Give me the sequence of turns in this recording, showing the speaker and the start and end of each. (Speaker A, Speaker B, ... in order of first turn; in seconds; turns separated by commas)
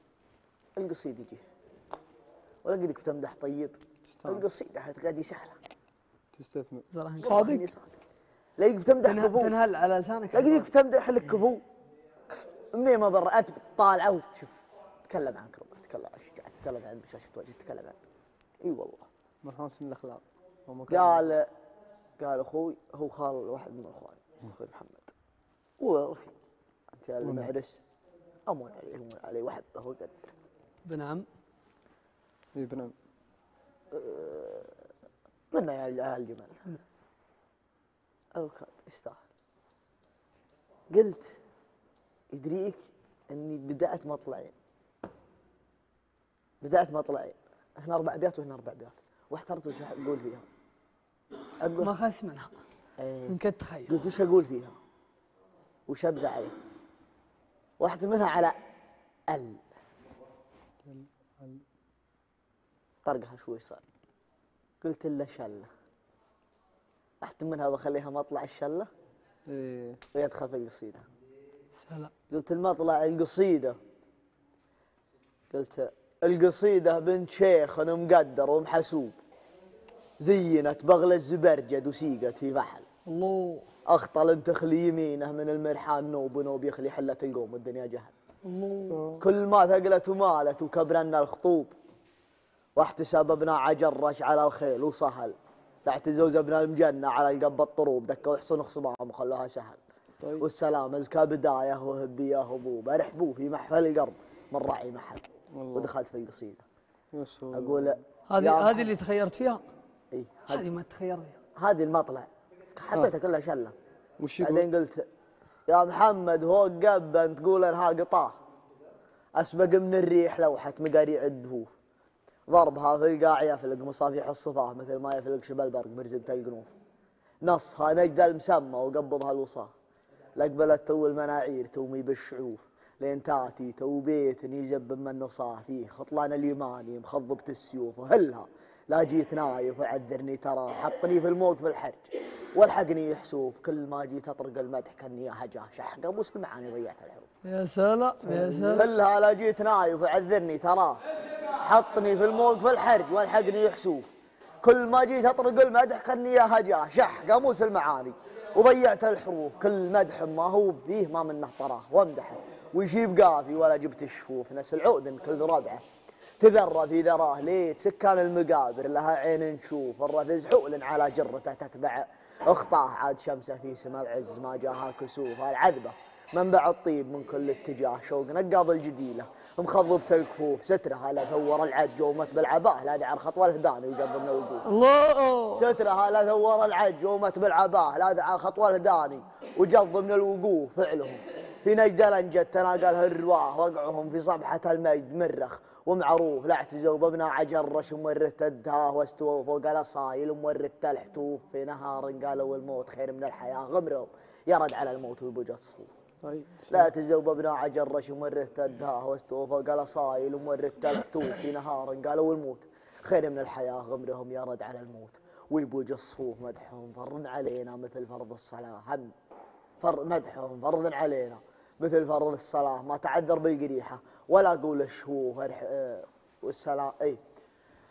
Speaker A: 0.8-1.4, Speaker A: 2.6-5.6, Speaker B: 4.1-4.5, Speaker B: 6.3-6.9, Speaker C: 6.9-7.6, Speaker A: 7.2-8.0, Speaker A: 8.6-9.5, Speaker C: 9.0-10.7, Speaker A: 10.3-11.6, Speaker A: 12.6-18.0, Speaker A: 18.6-19.1, Speaker B: 19.4-21.3, Speaker A: 20.9-21.5, Speaker A: 22.2-25.1, Speaker A: 25.8-26.4, Speaker A: 26.9-27.8, Speaker B: 27.2-27.5, Speaker A: 28.5-30.3, Speaker C: 30.9-31.3, Speaker B: 32.5-32.9, Speaker A: 33.9-34.8, Speaker A: 35.5-36.8, Speaker A: 38.3-39.2, Speaker A: 40.9-41.4, Speaker A: 42.3-44.5, Speaker A: 46.6-50.4, Speaker A: 51.6-51.9, Speaker C: 51.8-52.5, Speaker A: 53.0-54.7, Speaker C: 53.3-53.9, Speaker A: 55.9-56.5, Speaker A: 57.8-58.5, Speaker A: 59.3-59.6, Speaker B: 60.8-61.6, Speaker A: 63.0-63.8, Speaker A: 64.8-65.7, Speaker A: 67.2-68.9, Speaker B: 69.5-70.0, Speaker A: 70.1-71.0, Speaker C: 71.8-72.1, Speaker A: 72.3-73.8, Speaker A: 75.5-79.2, Speaker A: 80.2-82.9, Speaker C: 83.1-83.7, Speaker A: 83.8-88.1, Speaker C: 88.4-89.1, Speaker B: 88.9-89.2, Speaker A: 89.2-91.7, Speaker A: 92.8-99.8, Speaker B: 100.2-100.5, Speaker A: 100.4-106.6, Speaker B: 105.5-105.9, Speaker B: 107.1-108.0, Speaker A: 107.5-108.9, Speaker C: 108.3-109.6, Speaker A: 110.1-110.7, Speaker C: 110.5-111.4, Speaker A: 111.5-113.7, Speaker B: 114.2-114.7, Speaker A: 114.4-115.0, Speaker A: 115.7-118.4, Speaker A: 119.4-121.7, Speaker A: 122.5-126.7, Speaker A: 127.4-129.7, Speaker A: 130.3-147.3, Speaker C: 147.4-148.9, Speaker A: 148.2-154.1, Speaker A: 154.6-165.8, Speaker A: 166.4-184.7, Speaker C: 184.6-185.7, Speaker A: 185.6-205.9, Speaker B: 206.2-206.9, Speaker A: 206.7-219.1, Speaker A: 219.8-227.2